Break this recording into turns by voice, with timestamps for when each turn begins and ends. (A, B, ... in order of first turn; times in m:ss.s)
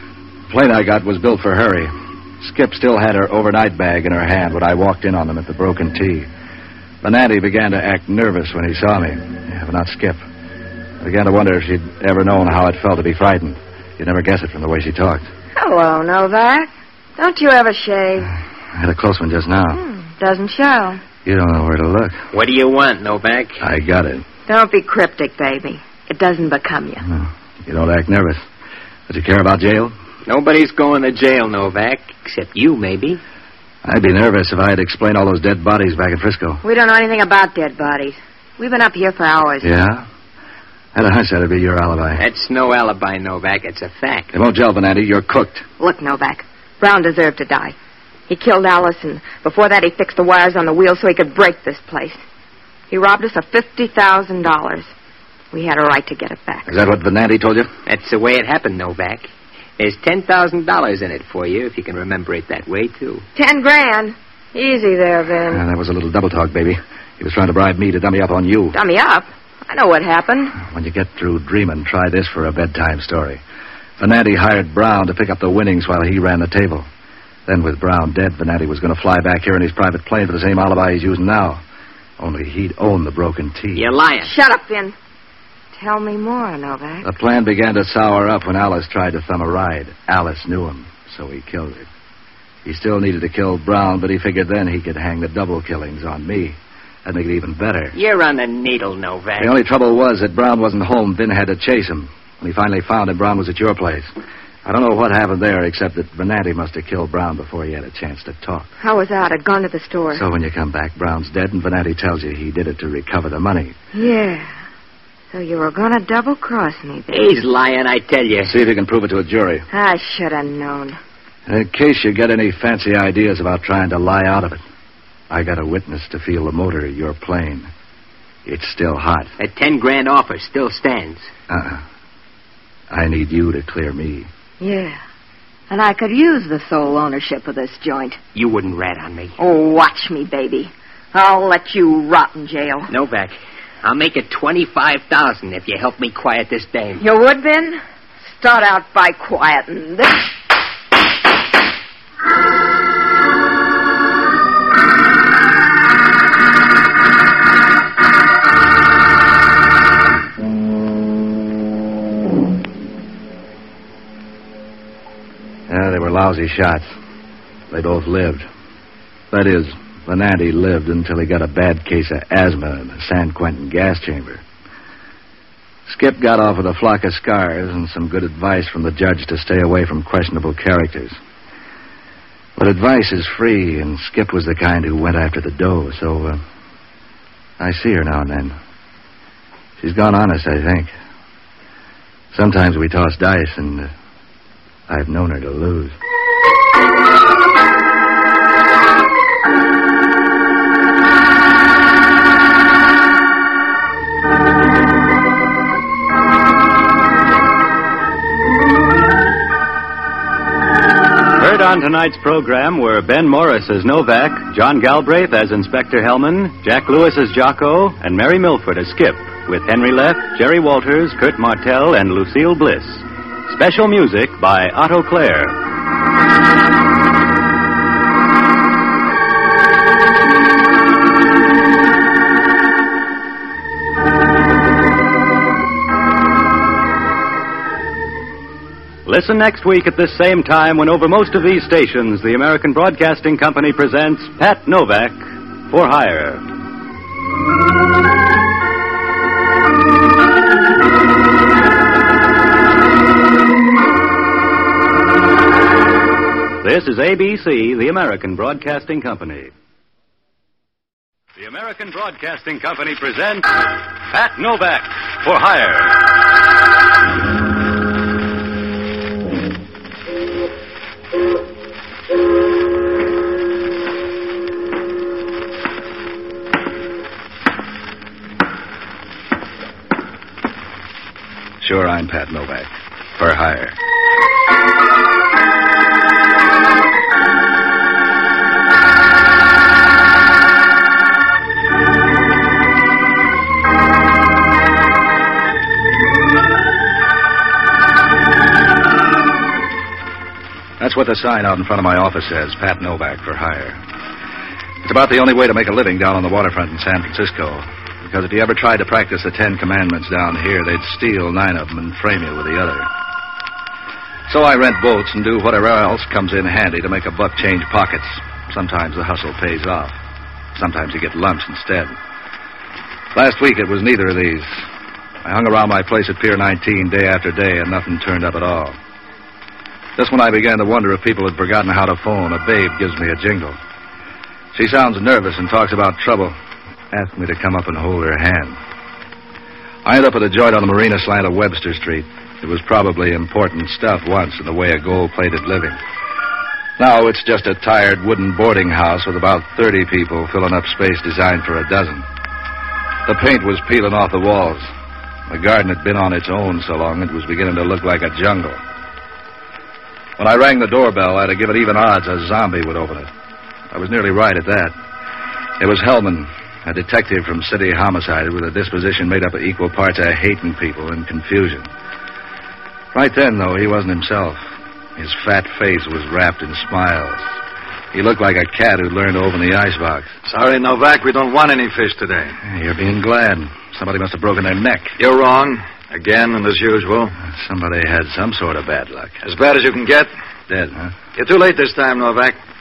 0:00.5-0:06.3 A
0:07.0-0:10.2 A
0:11.0-0:15.3 A
0:15.6-0:18.3 B
0:18.3-0:19.8 A
0:19.7-0:21.0 B
0:21.2-0:22.2 A
0:22.3-0:23.6 C
0:23.6-0:24.2 A
0:24.5-0:27.0 B
0:27.0-0:28.4 A
0:29.1-0:30.0 A
0:30.2-0:33.2 C
0:33.8-0:36.6 A
0:36.6-0:39.7 B
0:39.6-0:40.1 A
0:40.9-0:42.2 A
0:42.2-0:44.3 C
0:44.3-0:45.6 A
0:45.8-0:47.8 B
0:48.3-0:52.2 B
0:52.9-0:54.9 B
0:55.5-0:56.7 B
0:56.6-0:57.7 A
0:57.9-0:59.3 C
0:59.8-1:03.2 C
1:03.4-1:05.6 B
1:05.5-1:08.8 A
1:08.7-1:10.6 B
1:10.6-1:13.4 A
1:14.0-1:16.9 A
1:17.5-1:21.6 A
1:22.2-1:23.9 A
1:23.8-1:24.3 C
1:24.2-1:25.0 B
1:25.7-1:27.1 B
1:27.0-1:31.9 A
1:32.6-1:38.0 A
1:37.9-1:39.5 C
1:39.4-1:44.1 A
1:44.6-1:48.7 A
1:48.8-1:50.2 B
1:50.1-1:53.8 A
1:53.9-1:54.5 B
1:55.3-1:57.2 B
1:57.1-1:58.6 C
1:58.4-1:59.7 A
1:59.7-2:01.0 B
2:01.5-2:04.6 A
2:05.3-2:07.7 A
2:08.4-2:09.3 A
2:09.4-2:11.3 C
2:11.5-2:11.8 A
2:12.9-2:14.3 A
2:14.6-2:15.0 B
2:15.7-2:18.2 B
2:18.4-2:19.4 C
2:19.4-2:22.9 B
2:22.9-2:27.0 C
2:27.0-2:30.3 B
2:45.7-2:46.9 A
2:47.7-2:48.5 A
2:49.3-2:54.4 A
2:55.9-3:01.2 A
3:02.6-3:06.4 A
3:07.6-3:08.6 A
3:09.8-3:10.9 A
3:12.3-3:13.9 A
3:14.9-3:16.0 A
3:31.4-3:45.6 D
3:59.1-4:06.4 D
4:16.6-4:19.5 D
4:21.4-4:23.5 D
4:24.1-4:26.0 D
4:41.6-4:43.8 A
5:00.8-5:03.8 A
5:04.8-5:12.9 A
5:14.3-5:20.0 A
5:20.6-5:22.0 A
5:23.2-5:24.6 A
5:25.2-5:28.8 A
5:30.0-5:33.6 A
5:34.5-5:36.4 A
5:36.9-5:38.6 A
5:39.8-5:45.8 A
5:46.8-5:52.1 A
5:53.1-5:54.7 A
5:55.3-5:58.6 A
6:00.2-6:03.1 A
6:03.7-6:04.8 A
6:05.6-6:11.7 A
6:12.9-6:17.3 A
6:17.9-6:20.1 A
6:20.3-6:22.4 E
6:22.4-6:25.0 A
6:25.0-6:27.1 E
6:27.2-6:29.2 A
6:29.2-6:30.1 E
6:30.5-6:30.9 A
6:31.2-6:32.4 E